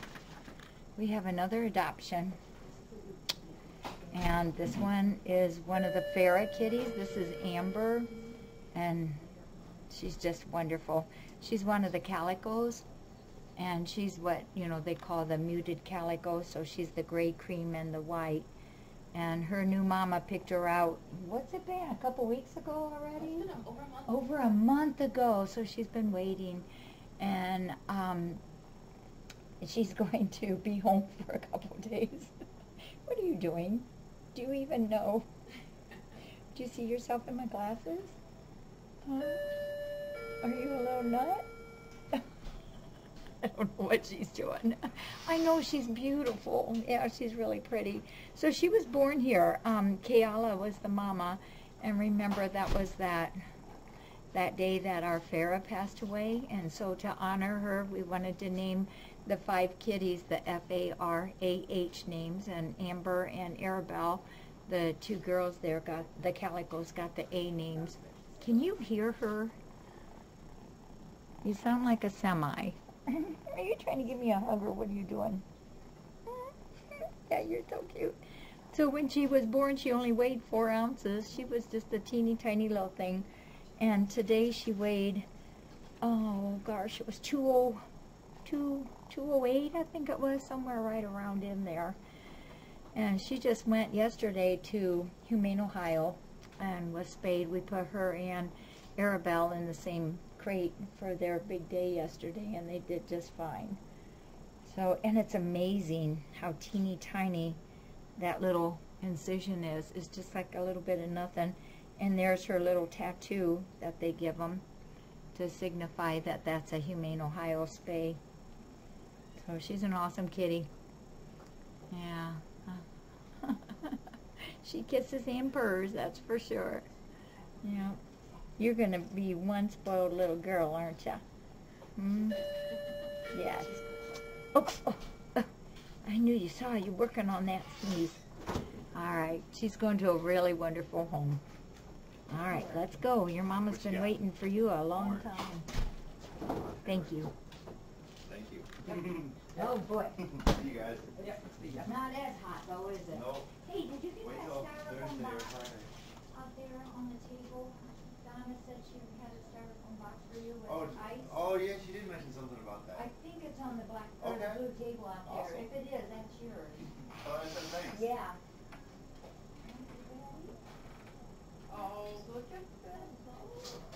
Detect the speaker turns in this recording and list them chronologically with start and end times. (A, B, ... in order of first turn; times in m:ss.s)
0:01.0-0:02.4 A
0:04.1-0:08.1 A
0:08.7-0:09.3 A
0:09.9-0:12.8 A
0:13.6-0:18.5 A
0:19.1-0:23.5 A
0:23.2-0:24.1 B
0:24.0-0:26.6 A
0:27.2-0:28.4 A
0:29.6-0:32.3 A
0:33.0-0:35.3 A
0:36.5-0:38.2 A
0:39.0-0:39.4 A
0:40.4-0:41.5 A
0:43.4-0:53.4 A
0:54.3-1:09.6 A
1:11.4-1:15.4 A
1:16.3-1:18.2 A
1:18.7-1:23.3 A
1:23.8-1:25.2 A
1:26.0-1:27.8 A
1:28.4-1:32.0 A
1:32.9-1:43.8 A
1:44.6-1:47.6 A
1:48.2-1:54.6 A
1:55.3-1:58.2 A
1:59.4-2:00.7 A
2:01.9-2:06.9 A
2:07.6-2:08.0 A
2:08.6-2:11.2 A
2:12.0-2:12.4 A
2:13.3-2:13.8 A
2:14.5-2:15.5 A
2:16.0-2:18.2 A
2:18.9-2:21.4 A
2:22.3-2:25.7 A
2:23.7-2:24.2 C
2:25.0-2:25.3 C
2:26.5-2:27.1 C
2:26.8-2:27.3 A
2:28.2-2:29.0 C
2:28.9-2:30.4 A
2:30.3-2:31.2 C
2:31.6-2:35.5 A
2:33.1-2:33.5 C
2:34.2-2:35.9 C
2:36.3-2:41.5 A
2:40.6-2:43.1 C
2:42.9-2:46.9 A
2:44.2-2:44.6 C
2:45.2-2:45.7 C
2:47.2-2:48.1 C
2:47.8-2:48.4 A
2:49.6-2:50.6 A
2:51.7-2:53.7 B
2:52.9-2:53.7 A